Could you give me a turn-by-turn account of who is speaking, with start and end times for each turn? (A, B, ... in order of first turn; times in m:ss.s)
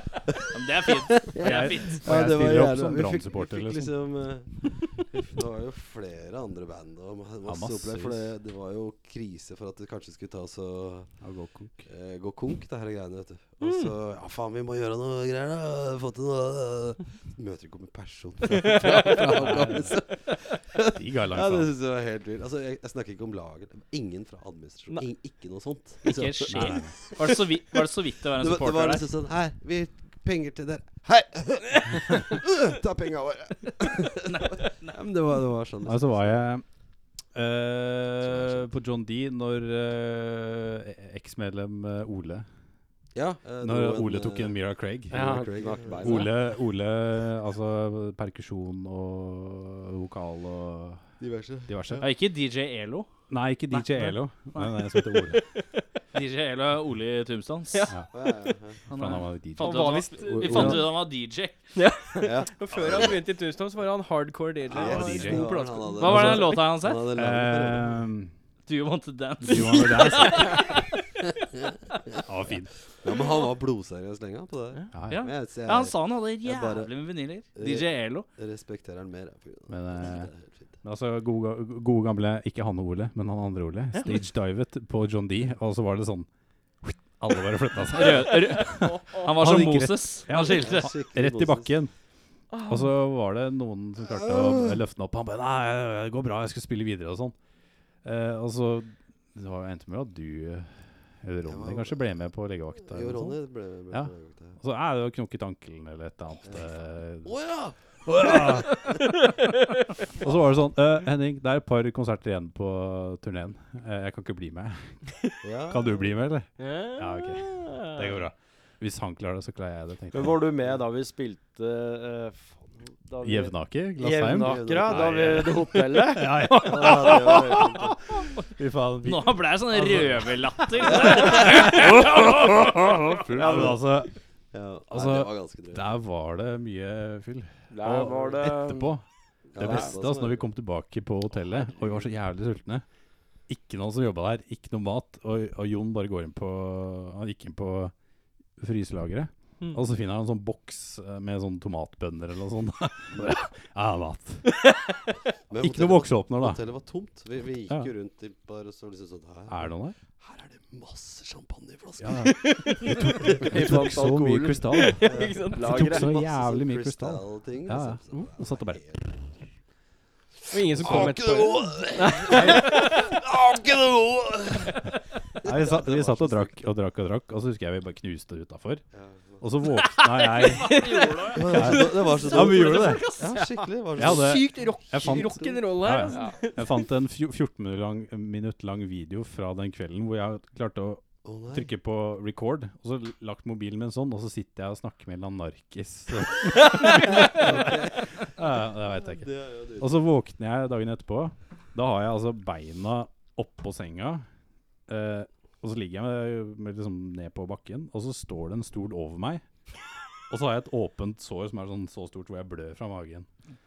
0:00.5-0:02.1 A
0:01.2-0:11.1 B
0:01.4-0:03.9 C
0:07.4-0:08.2 C
0:11.2-0:11.9 C
0:11.8-0:27.0 B
0:13.6-0:13.9 D
0:18.7-0:20.0 C
0:18.8-0:19.1 D
0:20.9-0:21.7 C
0:26.0-0:29.1 A
0:26.5-0:26.9 C
0:28.4-0:36.4 B
0:34.2-0:35.0 A
0:35.8-0:36.6 C
0:37.3-0:42.4 C
0:38.2-0:38.6 B
0:43.1-0:44.6 B
0:43.6-0:45.5 C
0:45.1-0:46.3 E
0:45.2-0:46.3 B
0:46.0-0:51.1 C
0:51.2-0:52.0 B
0:51.7-0:52.0 C
0:52.0-0:53.1 A
0:53.3-0:55.4 C
0:56.1-0:57.9 A
0:58.1-0:58.8 B
0:58.9-1:01.6 A
0:58.9-1:00.8 C
0:59.6-1:00.9 D
1:00.3-1:00.8 B
1:01.7-1:06.4 D
1:02.2-1:03.1 B
1:04.7-1:08.0 B
1:04.7-1:08.3 C
1:06.0-1:07.0 A
1:08.6-1:10.8 A
1:09.4-1:10.6 C
1:12.2-1:12.7 C
1:13.0-1:16.9 B
1:14.9-1:15.3 C
1:15.1-1:18.3 A
1:17.5-1:20.7 B
1:19.7-1:20.3 C
1:20.8-1:26.3 C
1:26.8-1:31.9 C
1:27.9-1:30.9 A
1:28.8-1:29.3 D
1:30.4-1:31.7 B
1:32.5-1:32.9 D
1:32.6-1:37.3 C
1:34.1-1:34.8 B
1:38.0-1:43.4 C
1:41.4-1:42.0 B
1:42.8-1:44.6 B
1:43.9-1:47.3 C
1:46.4-1:48.8 B
1:48.0-1:49.0 C
1:50.2-1:55.1 C
1:50.2-1:50.5 B
1:55.4-1:56.1 B
1:55.7-2:00.4 C
1:56.6-1:58.2 D
2:00.1-2:06.7 E
2:03.2-2:14.1 C
2:04.4-2:05.4 B
2:06.6-2:08.0 B
2:09.0-2:11.9 A
2:11.0-2:11.7 B
2:13.3-2:13.8 B
2:13.4-2:13.7 E
2:14.5-2:15.9 B
2:14.9-2:19.0 C
2:17.7-2:18.9 E
2:19.5-2:20.5 B
2:19.6-2:22.8 C
2:19.6-2:20.0 E
2:23.5-2:27.9 C
2:28.6-2:34.6 C
2:33.1-2:33.4 B
2:35.5-2:43.8 B
2:35.6-2:36.6 C
2:39.5-2:39.9 C
2:42.0-2:48.8 C
2:42.5-2:42.8 D
2:43.5-2:44.6 E
2:44.7-2:45.9 D
2:45.0-2:49.2 B
2:45.5-2:46.2 E
2:50.5-2:53.1 D
2:50.7-2:54.8 B
2:50.8-2:51.2 C
2:52.3-2:52.9 C
2:55.4-2:56.7 B
2:55.4-2:58.8 C
2:58.9-2:59.4 B
2:59.4-3:00.8 C
3:00.0-3:03.4 A
3:00.6-3:01.5 D
3:01.3-3:05.5 B
3:01.5-3:03.0 C
3:03.3-3:06.8 D
3:04.0-3:24.2 C
3:11.2-3:11.7 B
3:17.0-3:19.9 B
3:24.9-3:29.4 C
3:30.3-3:33.3 C